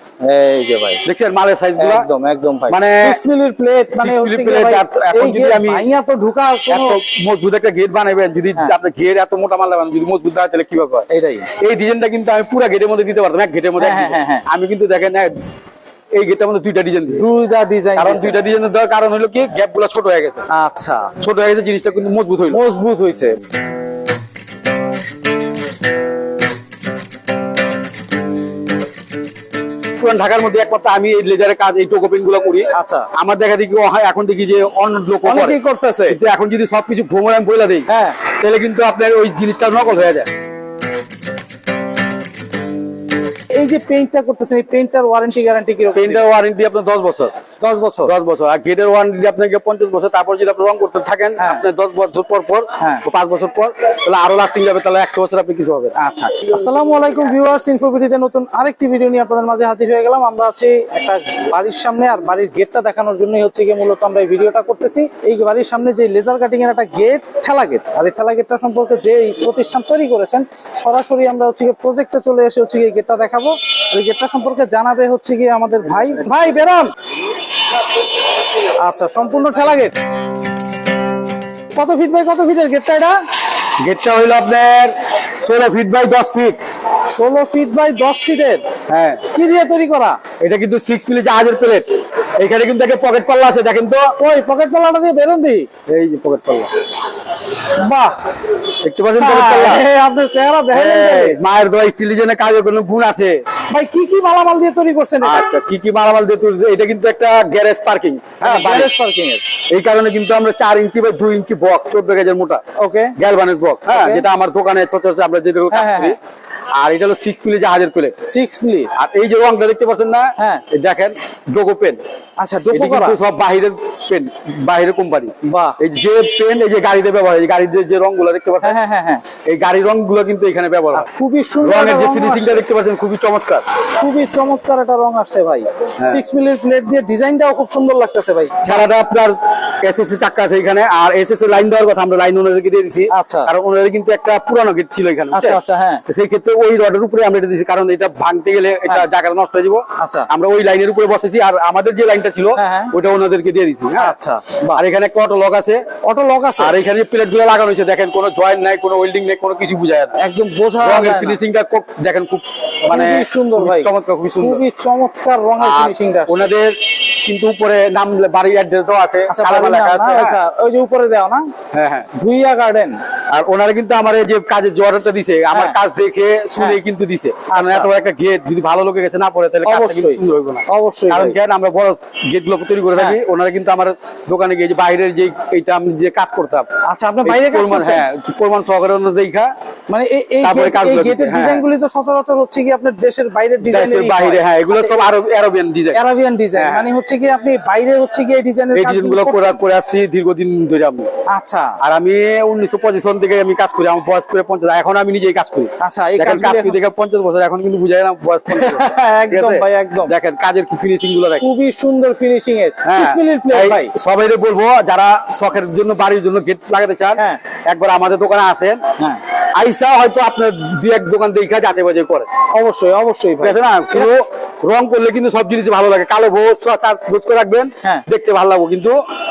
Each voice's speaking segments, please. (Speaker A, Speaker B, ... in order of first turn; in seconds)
Speaker A: 0.2-1.0, 1.8-7.0, 11.1-11.5, 13.8-14.4, 17.1-18.4, 20.5-21.1, 22.5-23.4, 32.7-33.1, 35.2-36.2, 37.9-38.2, 43.5-46.2, 47.6-48.1, 51.4-51.6, 52.8-53.0, 56.0-76.9, 78.5-79.9, 81.7-83.2, 87.1-88.6, 89.3-90.2, 94.2-95.7, 97.6-98.2, 99.2-101.4, 103.7-105.5, 108.4-109.4, 112.8-113.1, 113.9-114.2, 115.7-116.1, 118.2-118.9, 120.4-120.6, 122.4-123.2, 125.5-125.8, 128.6-129.2, 130.9-132.6, 134.0-138.8, 143.1-143.5, 145.3-146.0, 150.0-150.3, 152.6-152.9, 154.0-154.8, 156.0-156.8, 160.2-161.4, 162.9-166.5, 169.3-171.5, 172.1-173.0, 175.5-175.8, 177.5-177.9, 179.6-181.4, 186.8-188.1, 189.9-195.1, 195.9-199.6, 201.3-201.8, 205.8-206.8, 208.5-210.1, 211.4-213.9, 222.5-224.1
Speaker B: 1.0-2.1, 2.7-3.2, 3.9-5.8, 6.7-11.1, 11.6-15.3, 16.1-17.2, 17.9-20.4, 21.2-22.6, 30.0-35.6, 36.1-40.3, 45.9-47.3, 48.1-56.0, 83.8-86.6, 88.9-89.2, 90.4-91.9, 92.4-94.1, 95.9-96.7, 98.8-99.8, 100.7-103.4, 105.2-108.9, 109.7-112.6, 113.2-116.2, 116.7-118.1, 118.9-122.0, 122.7-128.8, 129.4-131.1, 131.6-133.7, 138.6-154.1, 154.7-155.8, 156.6-160.2, 160.8-164.6, 165.6-170.4, 171.7-172.1, 173.3-186.7, 187.2-189.5, 190.4-191.6, 193.7-196.0, 196.6-196.8, 198.7-201.1, 201.8-211.4, 212.8-218.8, 219.6-222.3, 223.4-228.9